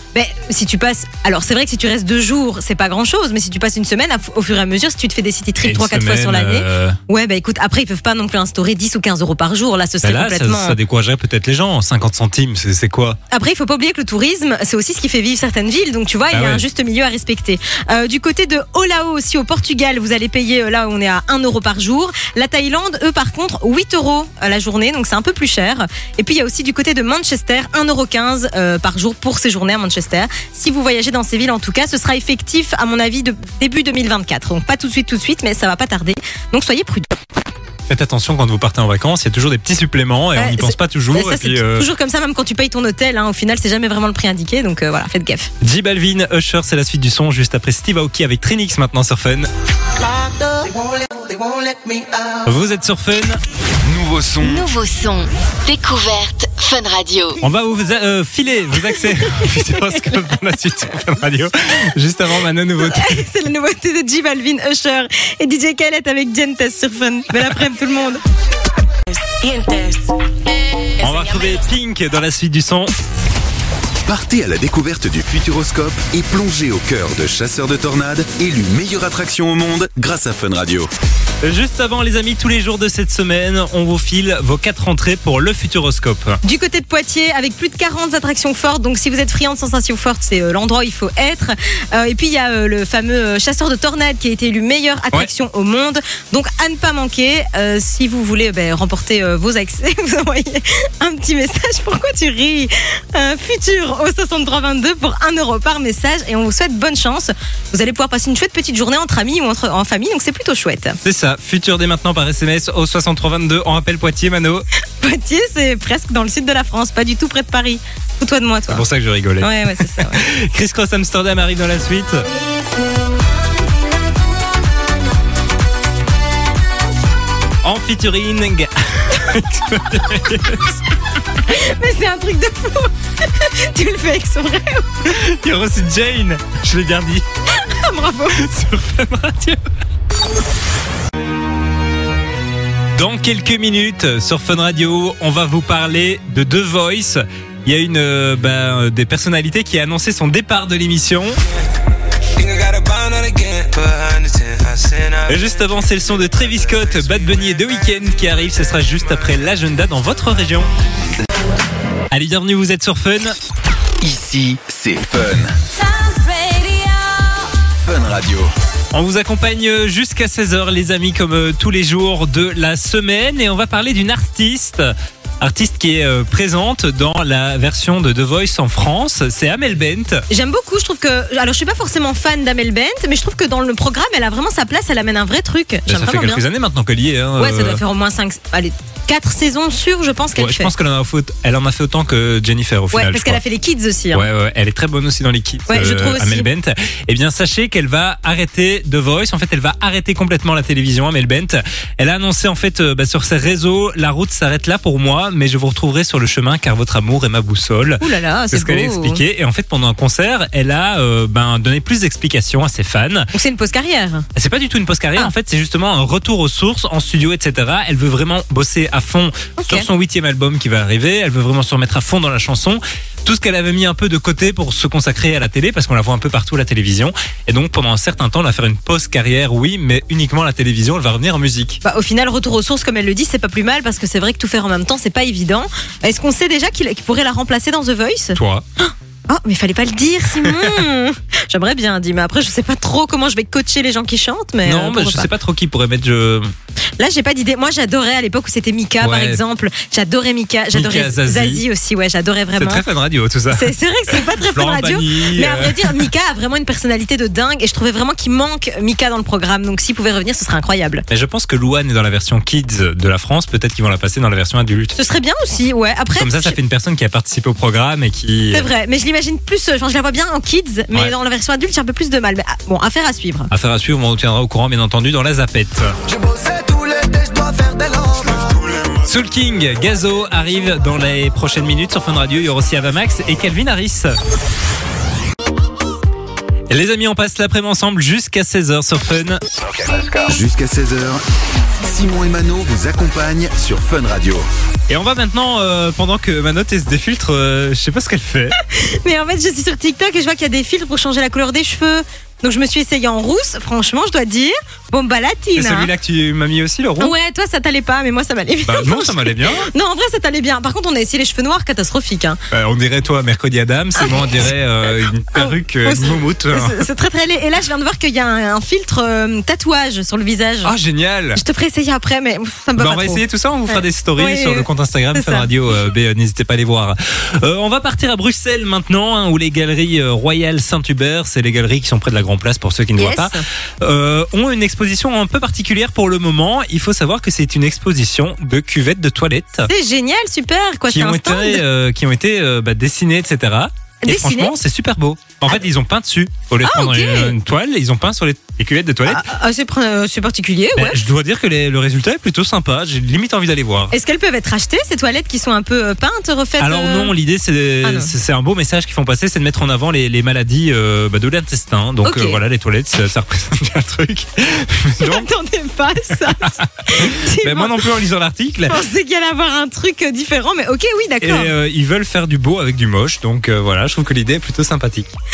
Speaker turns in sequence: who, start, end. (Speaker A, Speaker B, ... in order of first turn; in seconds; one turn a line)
Speaker A: 0.1-10.8
Speaker B: 5.6-7.0
Speaker B: 10.0-13.2
Speaker A: 13.3-37.1
Speaker B: 16.3-16.6
Speaker B: 37.9-41.9
Speaker A: 40.4-45.5
Speaker B: 45.6-49.5
Speaker B: 52.4-53.4
Speaker C: 53.8-54.7
Speaker D: 54.4-57.4
Speaker B: 57.4-63.2
Speaker A: 59.4-59.8
Speaker A: 62.8-68.2
Speaker E: 69.4-70.0
Speaker B: 71.0-72.9
Speaker C: 74.0-80.9
Speaker B: 81.4-86.4
Speaker A: 86.4-111.0
Speaker B: 111.0-114.6
Speaker A: 115.0-118.8
Speaker B: 118.7-122.2
Speaker A: 119.4-120.2
Speaker B: 127.6-130.8
Speaker A: 131.5-134.9
Speaker B: 135.0-137.2
Speaker A: 137.5-138.5
Speaker B: 138.3-139.6
Speaker B: 142.9-151.4
Speaker F: 152.4-158.0
Speaker B: 155.3-160.7
Speaker B: 162.1-163.3
Speaker C: 164.0-165.6
Speaker E: 165.7-167.5
Speaker C: 167.8-168.5
Speaker B: 168.9-180.2
Speaker A: 180.3-186.4
Speaker B: 185.9-187.8
Speaker A: 187.4-190.7
Speaker B: 190.3-193.4
Speaker A: 192.9-194.3
Speaker B: 194.1-213.3
Speaker A: 195.7-196.5
Speaker A: 208.0-209.2
Speaker A: 213.3-214.3
Speaker B: 214.3-231.8
Speaker A: 219.6-219.9
Speaker A: 231.8-245.3
Speaker B: 238.3-238.6
Speaker B: 240.4-240.7
Speaker B: 244.6-246.5
Speaker A: 247.0-252.8
Speaker B: 249.0-249.4
Speaker B: 250.7-251.6
Speaker B: 252.6-256.1
Speaker A: 253.5-261.0
Speaker B: 261.1-264.9
Speaker A: 264.9-266.6
Speaker B: 266.2-268.7
Speaker A: 268.5-273.5
Speaker B: 273.5-275.9
Speaker C: 278.0-278.4
Speaker B: 279.0-284.1
Speaker B: 286.7-289.4
Speaker C: 290.1-291.2
Speaker C: 291.8-294.5
Speaker B: 294.9-298.6
Speaker A: 298.6-305.9
Speaker B: 305.6-307.1
Speaker A: 307.0-312.4
Speaker B: 308.6-309.7
Speaker B: 312.5-316.9
Speaker A: 314.0-314.5
Speaker A: 315.3-320.7
Speaker B: 320.6-321.4
Speaker A: 321.4-325.5
Speaker B: 322.8-339.7
Speaker A: 333.0-333.4
Speaker A: 339.7-341.6
Speaker B: 340.9-349.2
Speaker A: 344.0-344.5
Speaker A: 346.6-347.4
Speaker A: 349.1-351.0
Speaker B: 350.8-353.9
Speaker A: 353.9-357.1
Speaker B: 356.6-365.2
Speaker A: 357.8-358.1
Speaker A: 362.0-362.4
Speaker A: 365.0-367.9
Speaker B: 366.4-368.8
Speaker A: 368.7-371.5
Speaker B: 371.2-375.1